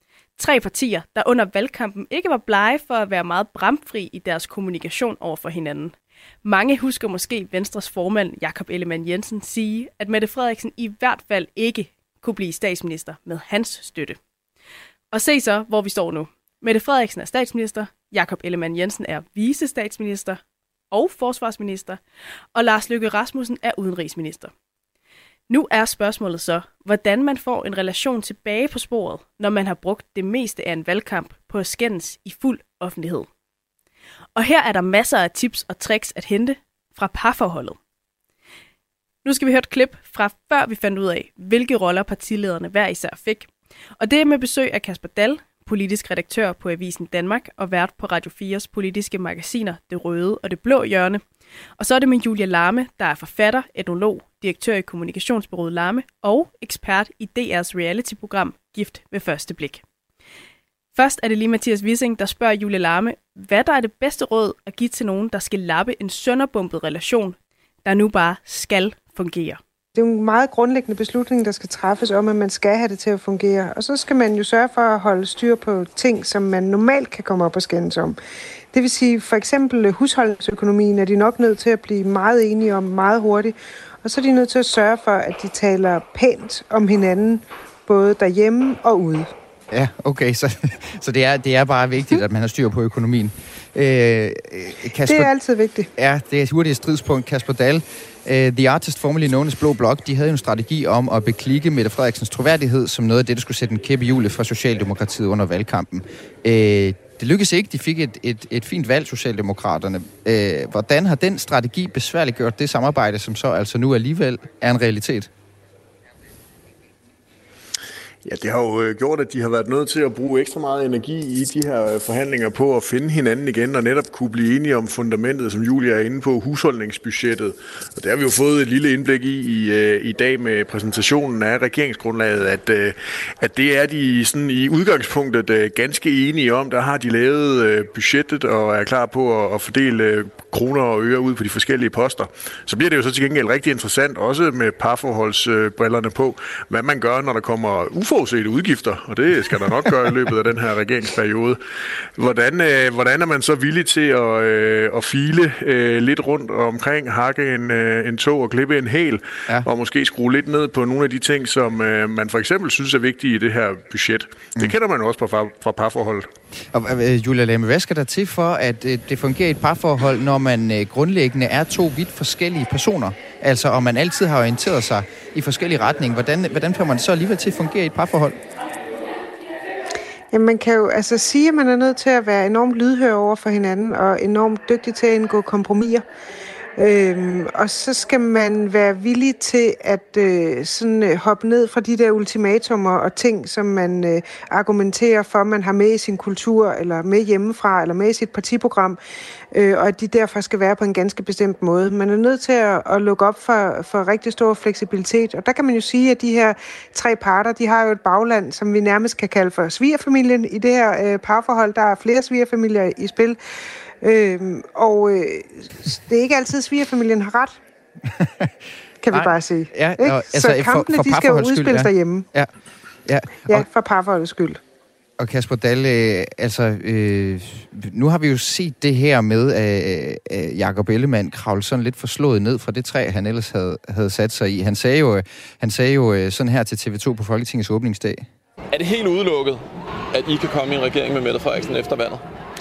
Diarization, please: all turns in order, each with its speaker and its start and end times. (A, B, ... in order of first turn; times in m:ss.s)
0:00.4-0:05.9 A
0:06.4-0:14.2 A
0:15.1-0:20.4 A
0:20.9-0:22.0 A
0:22.5-0:24.5 A
0:25.5-0:33.3 A
0:34.4-0:37.8 A
0:39.2-0:51.2 A
0:51.8-0:59.8 A
1:00.9-1:09.6 A
1:10.0-1:18.2 B
1:18.7-1:29.3 B
1:29.7-1:35.3 C
1:35.0-1:35.9 B
1:36.0-1:55.3 C
1:58.2-2:31.6 D
2:32.1-2:46.3 D
2:46.7-2:58.4 C
3:00.3-3:06.0 B
3:06.8-3:19.0 B
3:19.5-3:33.4 B
3:34.0-3:37.6 B
3:39.0-3:42.3 B
3:39.1-3:42.5 C
3:43.0-3:43.6 C
3:43.4-3:44.6 B
3:45.2-3:58.2 C
3:58.7-4:02.2 E